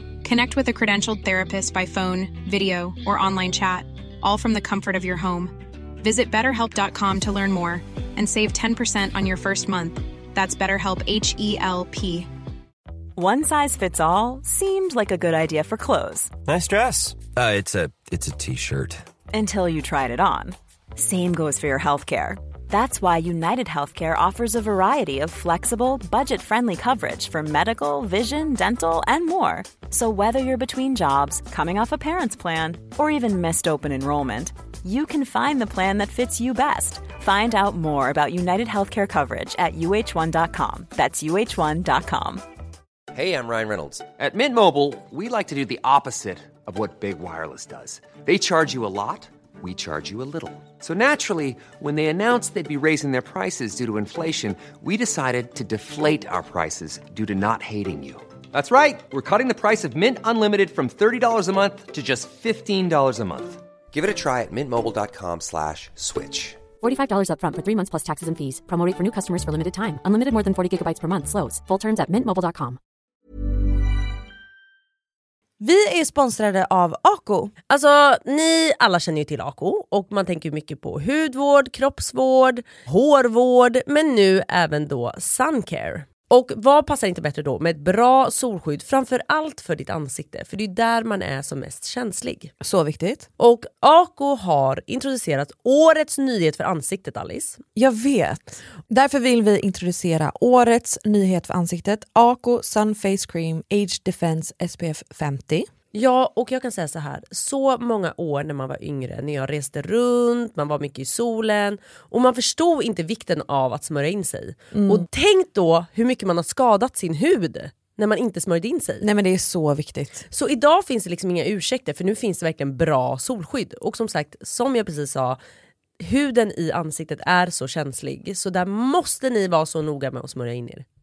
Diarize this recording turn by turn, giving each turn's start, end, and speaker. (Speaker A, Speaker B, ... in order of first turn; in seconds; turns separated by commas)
Speaker A: 0.2-12.3, Speaker B: 13.2-16.3, Speaker C: 16.4-19.0, Speaker B: 19.3-42.4, Speaker D: 43.1-66.6, Speaker E: 66.8-72.8, Speaker F: 75.6-77.5, Speaker G: 77.7-92.5, Speaker F: 92.6-93.3, Speaker G: 93.4-97.6, Speaker F: 97.7-105.7, Speaker G: 105.9-119.1, Speaker F: 114.7-115.1, Speaker F: 119.0-120.3, Speaker G: 120.3-125.4, Speaker G: 126.0-130.8